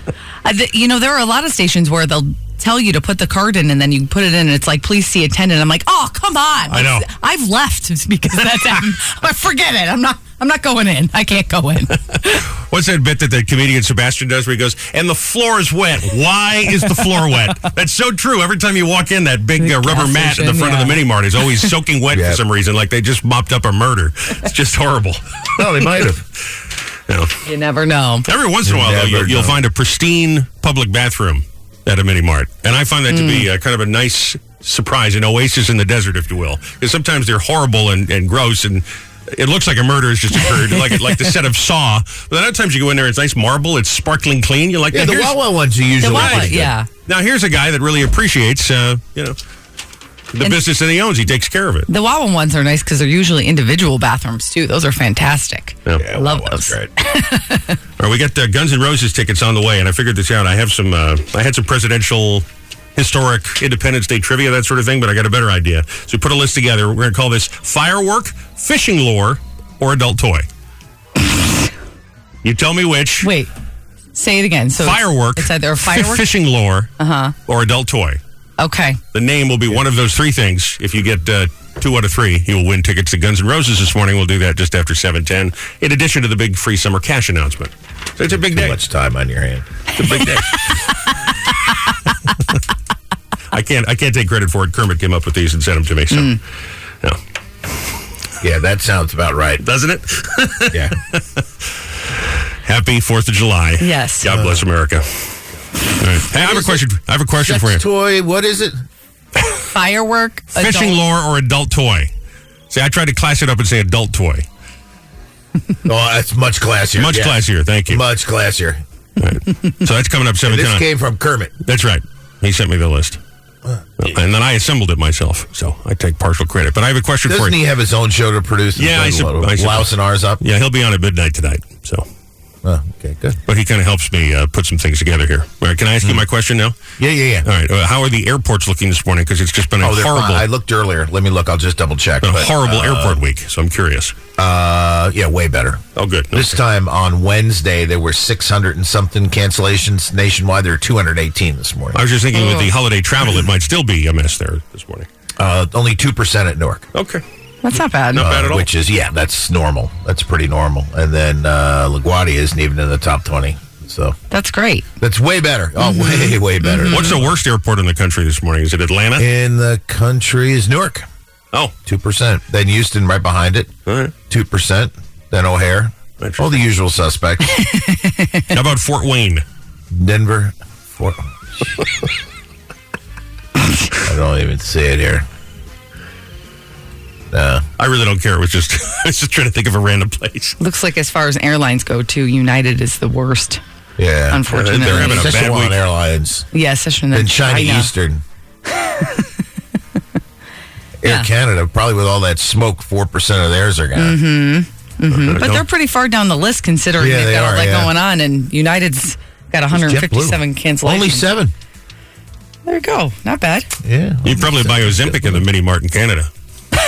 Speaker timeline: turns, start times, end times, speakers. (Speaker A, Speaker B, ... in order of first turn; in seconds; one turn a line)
Speaker A: 0.4-12.4
Speaker B: 6.7-7.1
Speaker B: 12.2-26.1
Speaker A: 19.6-21.0
Speaker C: 22.1-22.4
Speaker C: 25.6-26.2
Speaker B: 27.1-27.4
Speaker A: 27.4-28.3
Speaker B: 28.3-45.4
Speaker C: 28.6-29.6
Speaker A: 33.1-33.5
Speaker A: 40.4-41.2
Speaker C: 44.9-46.7
Speaker A: 46.0-46.9
Speaker B: 46.0-49.4
Speaker B: 50.3-51.9
Speaker A: 51.9-57.8
Speaker C: 56.0-56.9
Speaker B: 58.0-70.5
Speaker B: 72.4-73.3
Speaker A: 73.2-73.5
Speaker A: 74.2-76.2
Speaker B: 74.8-76.9
Speaker A: 77.0-77.3
Speaker B: 77.5-78.2
Speaker A: 78.6-79.0
Speaker B: 79.1-88.8
Speaker C: 88.3-89.7
Speaker B: 90.0-90.7
Speaker B: 93.5-96.4
Speaker A: 96.1-96.4
Speaker C: 98.4-99.6
Speaker B: 99.6-101.2
Speaker B: 102.7-105.2
Speaker A: 103.8-104.3
Speaker C: 104.3-104.6
Speaker B: 106.0-107.8
Speaker C: 106.3-106.8
Speaker C: 107.4-108.8
Speaker A: 109.7-111.0
Speaker B: 110.6-112.1
Speaker B: 112.7-114.5
Speaker C: 115.8-118.8
Speaker B: 117.0-118.0
Speaker B: 119.2-120.8
Speaker C: 120.5-121.5
Speaker B: 121.6-123.2
Speaker B: 124.0-127.6
Speaker C: 127.3-130.4
Speaker B: 128.8-132.1
Speaker C: 132.6-133.4
Speaker B: 133.5-136.8
Speaker C: 137.0-137.5
Speaker B: 137.4-140.4
Speaker C: 139.8-143.2
Speaker B: 142.2-144.2
Speaker C: 144.4-152.0
Speaker B: 146.0-146.6
Speaker B: 151.9-155.1
Speaker A: 152.3-152.7
Speaker C: 155.4-156.9
Speaker B: 156.9-157.2
Speaker A: 157.6-158.2
Speaker B: 158.1-158.7
Speaker C: 158.2-164.2
Speaker A: 164.3-164.9
Speaker C: 165.0-167.3
Speaker A: 165.8-167.2
Speaker B: 166.9-169.2
Speaker C: 169.2-171.1
Speaker C: 171.9-173.7
Speaker B: 173.9-174.1
Speaker C: 174.3-177.7
Speaker B: 176.2-176.6
Speaker A: 177.6-178.4
Speaker B: 178.5-179.4
Speaker C: 179.9-181.8
Speaker C: 184.0-185.3
Speaker C: 187.3-187.7
Speaker B: 187.8-190.6
Speaker A: 190.6-193.6
Speaker C: 194.0-196.5
Speaker A: 194.3-195.4
Speaker B: 194.5-195.8
Speaker A: 196.5-197.9
Speaker C: 197.1-198.2
Speaker C: 201.0-204.2
Speaker A: 201.1-201.3
Speaker A: 204.0-211.3
Speaker B: 205.2-205.7
Speaker C: 207.0-207.9
Speaker C: 209.7-211.5
Speaker A: 212.7-213.7
Speaker C: 213.8-215.4
Speaker B: 214.2-216.3